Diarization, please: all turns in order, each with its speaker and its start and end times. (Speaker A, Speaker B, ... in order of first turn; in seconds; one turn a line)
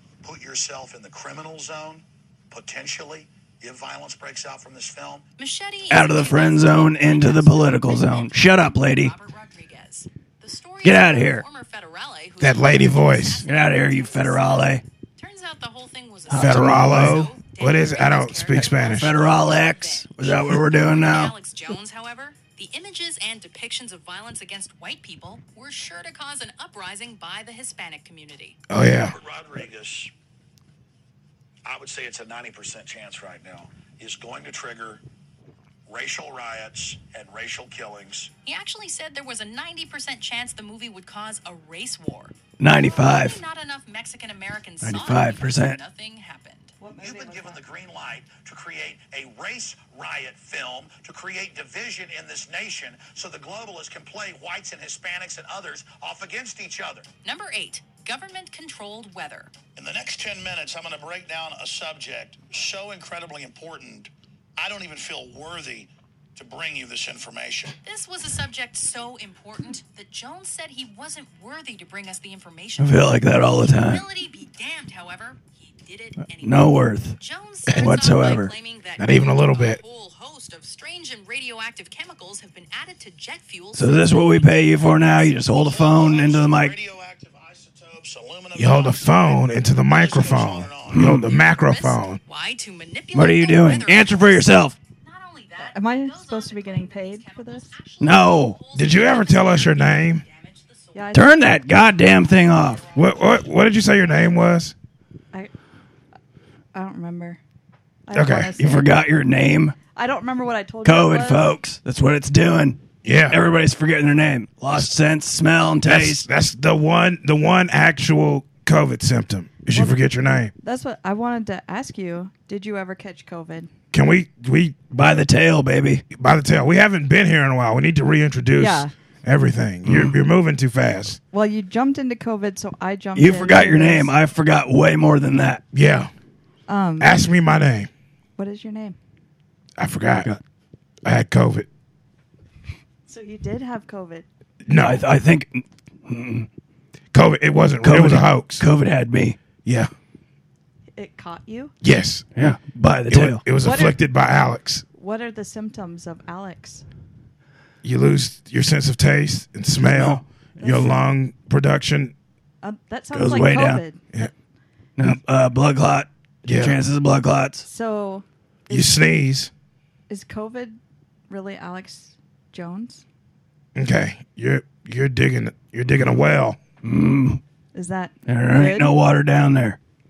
Speaker A: 0.2-5.2
Speaker B: 5.4-28.6
Speaker C: 5.9-9.1
Speaker C: 10.8-11.4
Speaker D: 12.4-13.5
Speaker C: 13.4-14.8
Speaker C: 16.3-17.3
Speaker D: 16.3-19.2
Speaker C: 18.6-21.3
Speaker D: 28.7-29.2
Speaker A: 28.9-30.1
Speaker A: 31.7-35.0
Speaker A: 35.9-38.3
Speaker B: 38.5-46.8
Speaker C: 42.6-43.4
Speaker C: 44.8-45.8
Speaker E: 46.8-47.6
Speaker A: 47.0-57.1
Speaker B: 57.2-59.5
Speaker A: 59.8-67.8
Speaker B: 67.8-84.8
Speaker C: 72.8-74.0
Speaker C: 76.4-77.2
Speaker C: 77.8-78.5
Speaker D: 79.0-79.8
Speaker C: 83.7-86.8
Speaker A: 85.5-91.1
Speaker D: 88.6-92.2
Speaker C: 90.9-91.3
Speaker B: 91.0-101.2
Speaker C: 93.1-94.8
Speaker E: 95.6-97.7
Speaker C: 98.0-98.6
Speaker D: 98.7-100.2
Speaker E: 100.9-101.3
Speaker C: 101.1-102.8
Speaker B: 102.5-103.4
Speaker D: 103.0-104.7
Speaker E: 106.7-107.4
Speaker E: 108.1-108.9
Speaker D: 108.1-108.5
Speaker C: 108.6-109.8
Speaker E: 109.9-111.5
Speaker C: 110.8-116.3
Speaker D: 113.0-113.4
Speaker D: 115.8-120.5
Speaker E: 119.7-120.0
Speaker E: 120.6-123.7
Speaker D: 123.9-124.8
Speaker C: 124.9-126.0
Speaker D: 126.1-131.2
Speaker E: 128.6-128.9
Speaker C: 129.9-130.2
Speaker E: 131.3-134.1
Speaker C: 133.2-135.6
Speaker D: 135.7-136.1
Speaker E: 136.7-137.2
Speaker D: 137.0-137.9
Speaker E: 138.4-139.0
Speaker D: 139.8-140.3
Speaker D: 141.1-141.7
Speaker E: 143.1-144.3
Speaker D: 144.7-145.1
Speaker C: 144.8-146.5
Speaker D: 147.1-148.7
Speaker C: 147.8-149.4
Speaker D: 149.7-149.9
Speaker E: 151.0-151.7
Speaker D: 151.8-152.3
Speaker C: 152.4-153.4
Speaker D: 153.1-154.8
Speaker E: 153.6-154.0
Speaker E: 154.9-156.8
Speaker D: 157.8-162.1
Speaker C: 159.8-160.2
Speaker E: 160.6-160.9
Speaker E: 162.6-164.0
Speaker C: 163.1-163.8
Speaker C: 165.0-167.7
Speaker D: 166.4-166.8
Speaker E: 167.6-168.9
Speaker D: 168.7-169.5
Speaker E: 170.1-170.8
Speaker E: 171.3-173.1
Speaker D: 173.8-176.6
Speaker C: 176.8-177.4
Speaker E: 177.7-178.9
Speaker C: 178.3-179.8